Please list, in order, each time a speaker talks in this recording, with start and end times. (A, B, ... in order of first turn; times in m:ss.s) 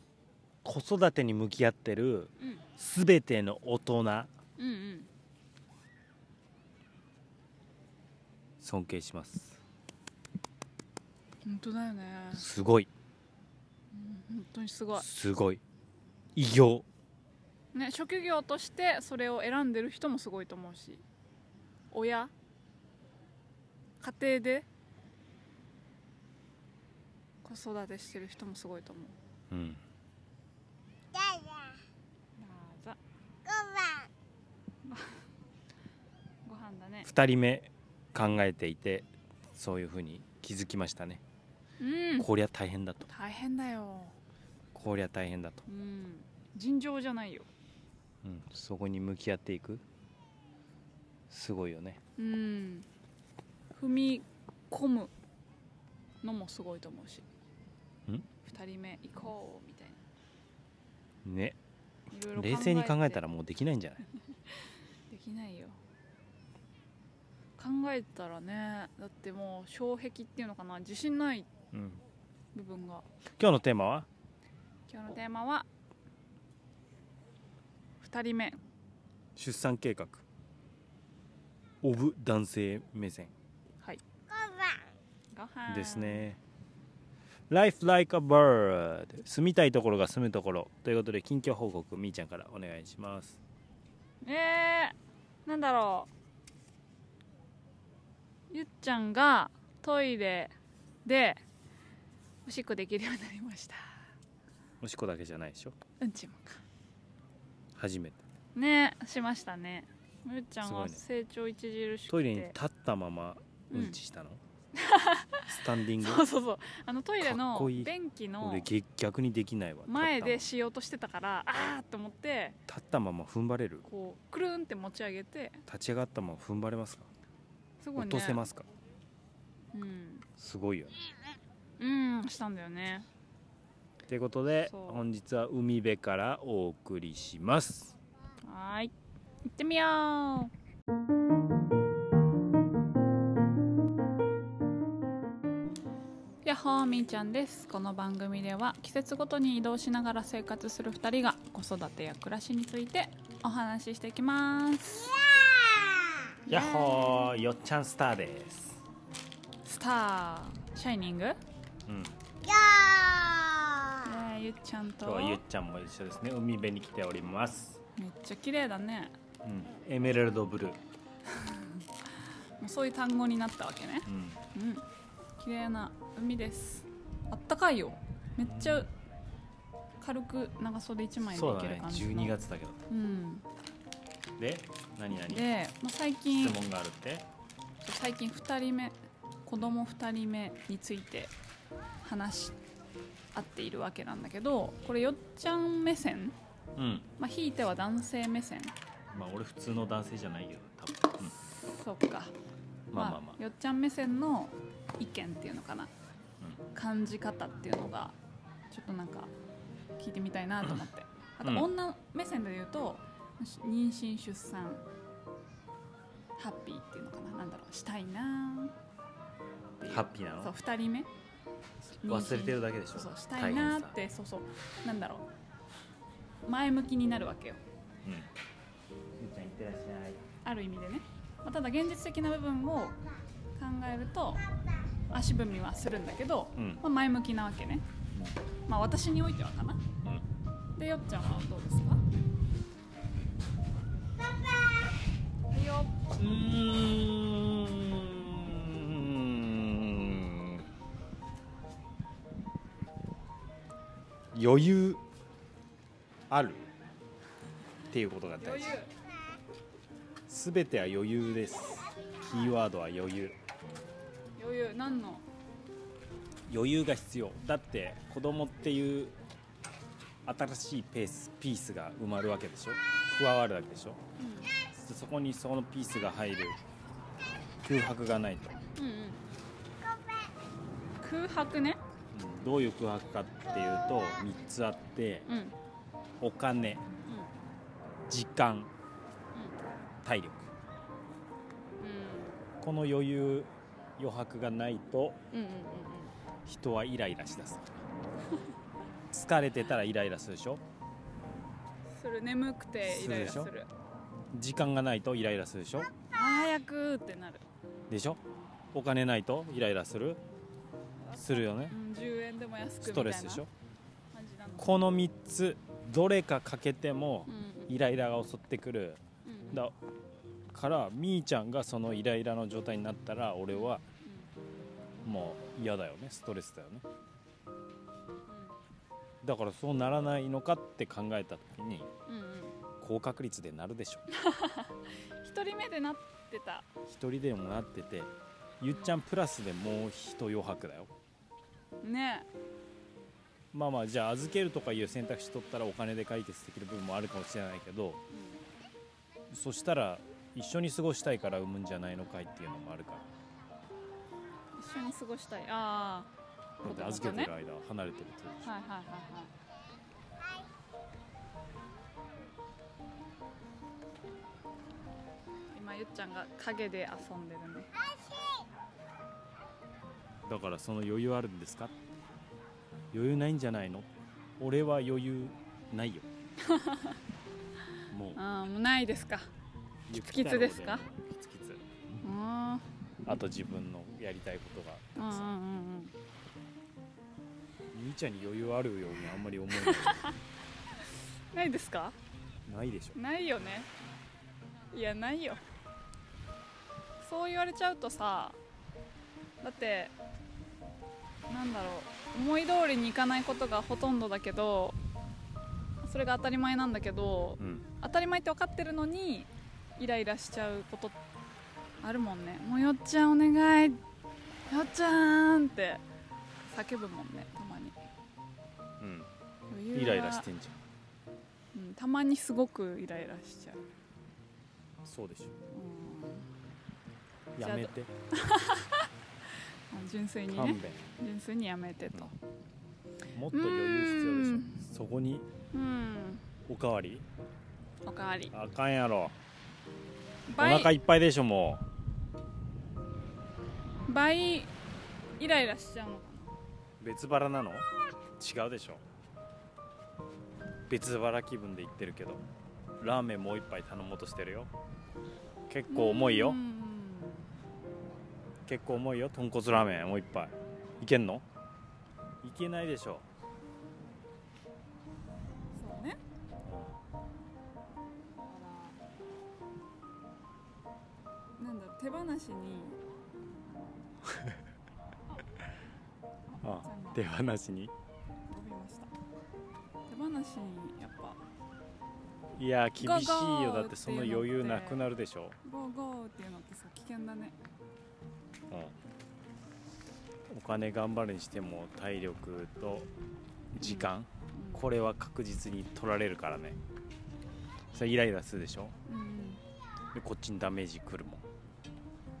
0:00.6-0:04.3 A
0:02.4-0:02.6 B
0:04.6-0:05.1 B
0:08.6-0:09.6 A
0:11.4-0:12.4 B
0:12.3-0:12.9 A
0:13.9-0:15.0 B
0:14.9-0:15.6 A
0:16.4-0:16.8 A
0:17.7-0:21.0 B
0:21.9-0:22.3 B
0:24.0-0:24.6 B
0:27.4-0:29.2 B
0:29.5-0:29.8 A
0:32.4-0:33.0 B
0:34.8-0:35.2 B
0:36.4-0:37.1 B
0:37.0-0:41.2 A
0:41.8-0:42.3 B
0:42.2-0:43.1 A
0:43.0-0:44.2 B
0:44.7-0:45.6 A
0:45.7-0:47.5 B
0:48.2-0:49.8 A
0:51.3-0:52.0 A
0:52.2-0:52.9 B
0:53.7-0:55.1 B
0:56.2-0:57.3 B
0:58.4-1:00.0 B
1:01.2-1:01.6 A
1:02.1-1:03.2 B
1:02.3-1:04.0 A
1:04.5-1:05.8 B
1:07.6-1:11.5 B
1:11.7-1:12.0 A
1:12.5-1:13.0 B
1:13.3-1:14.1 A
1:14.9-1:15.7 B
1:18.0-1:18.6 B
1:19.4-1:20.2 A
1:21.8-1:23.3 A
1:25.3-1:26.2 B
1:25.7-1:26.4 A
1:27.5-1:33.4 A
1:34.2-1:36.1 B
1:38.5-1:41.4 B
1:42.4-1:44.0 B
1:44.8-1:45.7 A
1:46.0-1:46.6 B
1:47.8-1:48.2 A
1:48.5-1:52.6 B
1:50.6-1:51.0 A
1:52.1-1:54.4 A
1:53.7-1:54.0 B
1:54.7-1:58.7 B
1:55.5-1:56.2 A
1:57.2-2:00.5 A
1:59.9-2:02.6 B
2:02.7-2:03.8 A
2:03.8-2:05.6 B
2:05.7-2:07.1 A
2:07.8-2:08.4 B
2:08.0-2:08.6 A
2:09.7-2:10.3 B
2:10.4-2:10.9 A
2:11.8-2:13.1 B
2:14.1-2:17.9 A
2:14.7-2:15.0 B
2:18.4-2:18.9 B
2:19.4-2:20.5 B
2:26.4-2:35.3 B
2:36.4-2:37.3 B
2:36.4-2:38.8 A
2:39.6-2:41.4 B
2:41.9-2:42.1 A
2:43.9-2:45.4 B
2:45.0-2:47.8 A
2:48.0-2:49.1 B
2:49.4-2:50.8 A
2:51.3-2:51.8 B
2:52.6-2:54.8 B
2:54.0-2:54.4 A
2:55.4-2:58.9 B
2:58.4-2:58.9 A
3:00.0-3:02.4 B
3:01.2-3:02.8 A
3:02.9-3:03.4 B
3:04.4-3:05.4 A
3:05.2-3:06.6 B
3:06.4-3:07.3 A
3:07.8-3:11.3 B
3:12.0-3:12.6 B
3:13.3-3:16.4 B
3:16.8-3:17.1 A
3:17.2-3:18.8 B
3:19.1-3:21.4 A
3:21.4-3:22.3 B
3:22.9-3:23.4 A
3:22.9-3:25.9 B
3:26.7-3:28.2 B
3:28.7-3:29.3 B
3:30.0-3:34.9 B
3:31.4-3:31.7 A
3:36.4-3:38.7 B
3:39.8-3:41.1 B
3:39.8-3:40.5 A
3:42.0-3:45.3 B
3:42.1-3:44.0 A
3:46.4-3:47.6 B
3:49.2-3:50.2 A
3:50.4-3:53.0 B
3:53.6-3:54.4 B
3:55.1-3:57.8 B
3:56.6-3:56.8 A
3:58.7-3:59.8 B
4:00.8-4:02.0 B
4:05.5-4:06.0 B
4:06.1-4:10.6 A
4:14.3-4:15.0 A
4:16.3-4:16.7 A
4:17.9-4:18.8 A
4:18.4-4:18.9 B
4:20.3-4:23.4 A
4:24.4-4:25.2 B
4:26.5-4:29.2 A
4:30.2-4:34.0 A
4:34.2-4:34.5 B
4:34.7-4:36.6 A
4:37.6-4:38.6 A
4:38.8-4:39.2 B
4:41.0-4:41.8 B
4:42.1-4:45.3 A
4:45.3-4:45.6 B
4:46.2-4:46.8 A
4:47.0-4:47.3 B
4:48.1-4:48.7 A
4:50.0-4:50.5 A
4:51.8-4:52.4 B
4:52.6-4:55.2 A
4:55.3-4:56.1 B
4:56.4-4:57.8 A
4:59.1-5:00.6 A
5:01.9-5:03.7 B
5:02.8-5:03.5 A
5:04.3-5:05.9 A
5:06.1-5:07.4 B
5:07.9-5:08.2 A
5:08.7-5:10.2 A
5:11.0-5:13.4 B
5:11.2-5:11.7 A
5:12.8-5:13.5 A
5:14.1-5:14.8 B
5:14.6-5:19.0 A
5:17.3-5:17.7 B
5:19.2-5:19.6 B
5:20.5-5:23.8 A
5:23.5-5:24.3 B
5:25.0-5:26.8 A
5:28.3-5:28.6 B
5:29.2-5:31.9 A
5:32.0-5:32.6 B
5:32.8-5:34.0 A
5:34.1-5:36.7 B
5:36.8-5:40.9 A
5:38.7-5:39.0 B
5:41.8-5:42.3 B
5:43.5-5:48.0 A
5:48.1-5:48.4 B
5:49.3-5:53.0 A
5:54.6-5:56.1 B
5:56.6-5:57.3 B
5:56.6-5:58.5 A
5:58.4-5:59.3 B
6:05.5-6:07.7 B
6:10.2-6:11.7 A
6:12.9-6:13.9 A
6:14.4-6:16.1 A
6:16.4-6:17.0 B
6:17.9-6:18.2 A
6:18.1-6:19.3 B
6:19.9-6:21.6 A
6:19.9-6:20.8 B
6:22.0-6:22.7 B
6:23.0-6:25.3 A
6:25.0-6:25.9 B
6:27.7-6:30.1 A
6:29.6-6:30.1 B
6:31.3-6:32.0 B
6:32.4-6:33.0 A
6:32.9-6:33.7 B
6:34.7-6:35.4 B
6:37.0-6:38.4 B
6:39.4-6:39.9 B
6:41.3-6:44.8 B
6:45.8-6:51.0 B
6:47.4-6:47.6 A
6:51.8-6:53.8 B
6:54.5-6:55.8 B
6:56.5-6:57.8 B
6:58.8-6:59.1 A
6:59.5-7:00.3 B
6:59.7-7:00.6 A
7:01.5-7:03.6 B
7:04.8-7:05.3 A
7:05.5-7:06.3 B
7:07.3-7:07.9 A
7:07.4-7:08.9 B
7:09.7-7:12.2 B
7:10.3-7:10.9 A
7:13.1-7:15.3 A
7:13.3-7:14.6 B
7:15.5-7:16.2 B
7:16.4-7:17.0 A
7:17.8-7:18.3 B
7:18.3-7:19.2 A
7:20.3-7:20.7 B
7:20.4-7:21.6 A
7:23.8-7:24.5 B
7:25.2-7:26.3 B
7:26.8-7:27.7 A
7:28.2-7:28.8 A
7:30.7-7:32.2 A
7:32.8-7:34.5 A
7:35.5-7:36.4 A
7:35.7-7:37.3 B
7:38.5-7:41.2 A
7:42.2-7:43.0 A
7:45.5-7:46.0 B
7:46.4-7:46.8 A
7:48.2-7:48.8 B
7:51.4-7:52.8 B
7:56.3-7:57.0 B
7:56.4-7:57.7 A
7:58.3-7:58.9 B
7:59.9-8:01.2 B
8:02.4-8:05.4 A
8:02.8-8:04.9 B
8:05.4-8:07.4 B
8:10.3-8:12.9 A
8:13.5-8:16.6 A
8:13.6-8:14.6 B
8:17.7-8:18.7 A
8:18.8-8:19.4 B
8:19.9-8:21.2 A